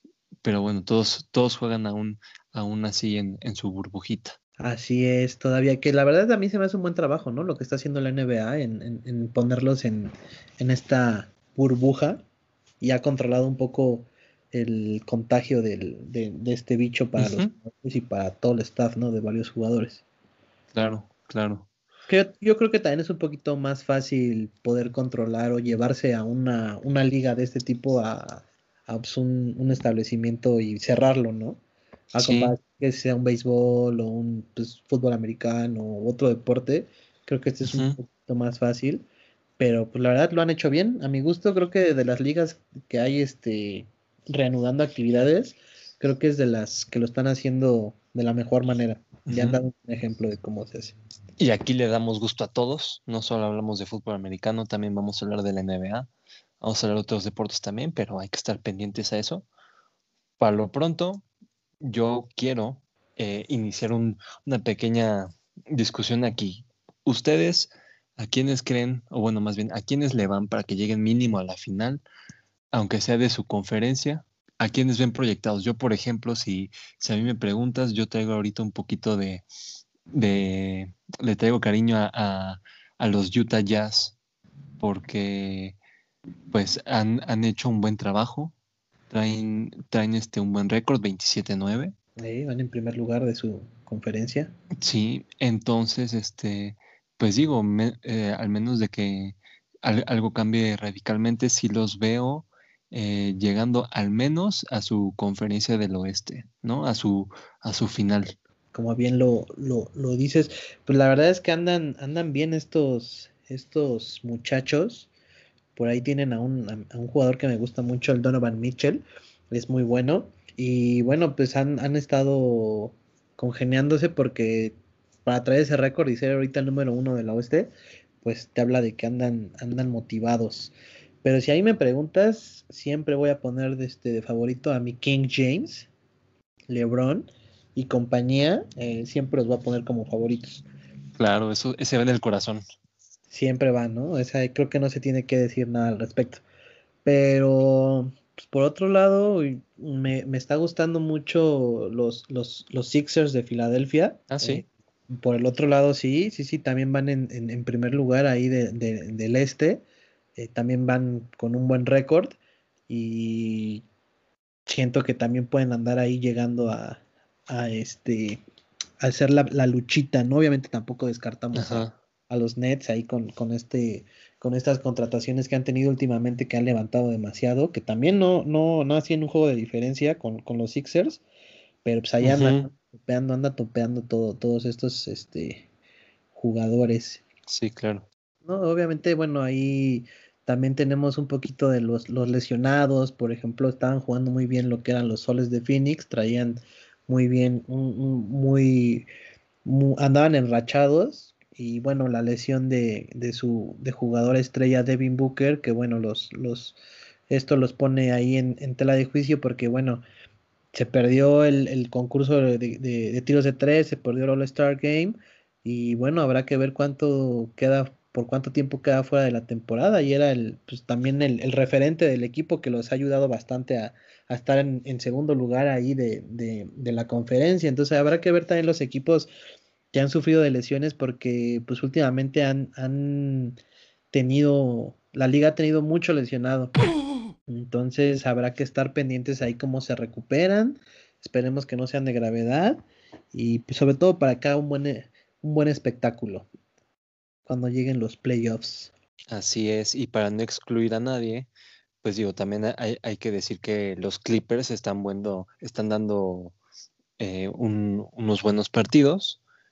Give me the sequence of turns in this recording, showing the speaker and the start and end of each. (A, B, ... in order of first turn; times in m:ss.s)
0:00.4-0:04.4 A
0:04.6-0:12.2 B
0:12.8-0:20.0 B
0:17.2-0:17.5 A
0:20.7-0:21.7 A
0:22.1-0:31.6 B
0:32.1-0:39.0 B
0:32.2-0:32.6 A
0:37.7-0:38.0 A
0:39.6-0:51.0 B
0:49.3-0:49.6 A
0:51.4-0:56.1 A
0:56.6-0:59.4 A
1:00.4-1:01.2 A
1:01.8-1:12.0 A
1:12.7-1:19.4 A
1:20.1-1:24.2 A
1:24.8-1:25.8 A
1:26.5-1:28.5 A
1:29.1-1:31.9 A
1:32.2-1:34.5 B
1:34.8-1:48.4 A
1:48.7-1:55.1 B
1:55.8-2:07.7 B
2:08.2-2:15.9 B
2:16.7-2:20.6 B
2:21.2-2:22.6 A
2:23.3-2:26.4 B
2:27.0-2:39.8 B
2:34.3-2:34.6 A
2:40.4-2:42.4 B
2:42.9-2:43.8 B
2:44.7-2:48.4 B
2:49.0-3:01.2 B
2:51.5-2:51.9 A
3:01.8-3:05.7 B
3:02.2-3:02.7 A
3:06.3-3:07.2 B
3:07.5-3:08.0 A
3:08.4-3:19.1 B
3:19.6-3:26.8 B
3:27.3-3:30.0 B
3:30.7-3:49.3 B
3:49.9-3:53.6 B
3:54.1-3:56.7 B
3:57.5-4:02.8 B
4:03.3-4:06.5 B
4:07.5-4:08.9 B
4:09.3-4:11.5 A
4:12.0-4:16.6 A
4:17.2-4:19.4 A